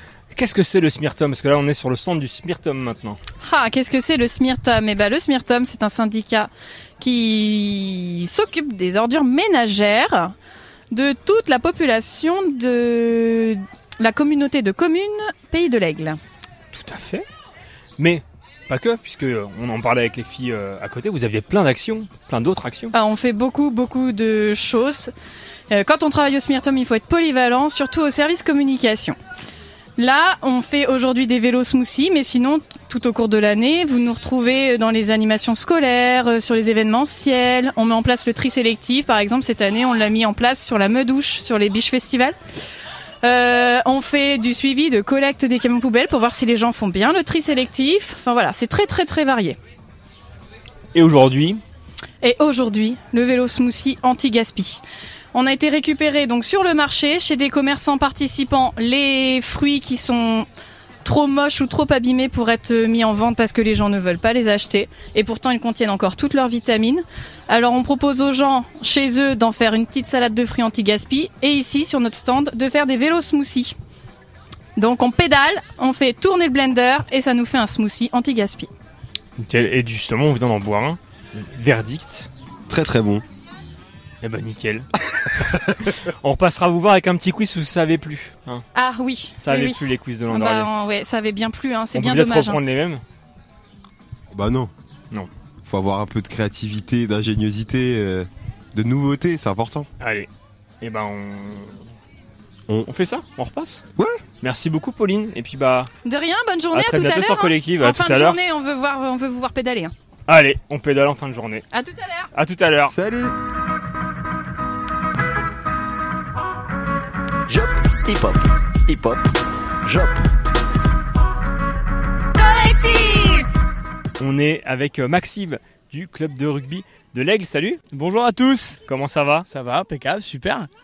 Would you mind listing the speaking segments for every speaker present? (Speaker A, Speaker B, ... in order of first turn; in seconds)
Speaker A: 0.3-3.2, 16.7-17.2, 18.0-22.9, 50.9-51.6, 79.4-82.3, 84.2-88.6, 89.4-90.7, 91.9-93.0, 100.0-100.3, 100.8-101.8, 102.8-103.8, 104.4-105.9, 106.7-108.4, 110.3-111.7, 112.3-112.9, 122.7-123.4, 124.2-127.8, 128.8-129.4
Speaker B: 3.4-10.3, 10.9-16.2, 22.9-25.1, 25.7-29.1, 30.0-42.4, 43.2-49.6, 52.2-54.8, 55.3-60.5, 61.0-73.7, 74.8-78.7, 88.7-92.6, 106.0-109.9, 111.7-112.3
Speaker C: 82.7-83.2, 94.3-94.7, 95.6-99.9, 104.0-104.2, 112.9-113.3
Speaker D: 117.5-119.2, 119.8-120.2
Speaker E: 127.9-128.8, 129.5-130.7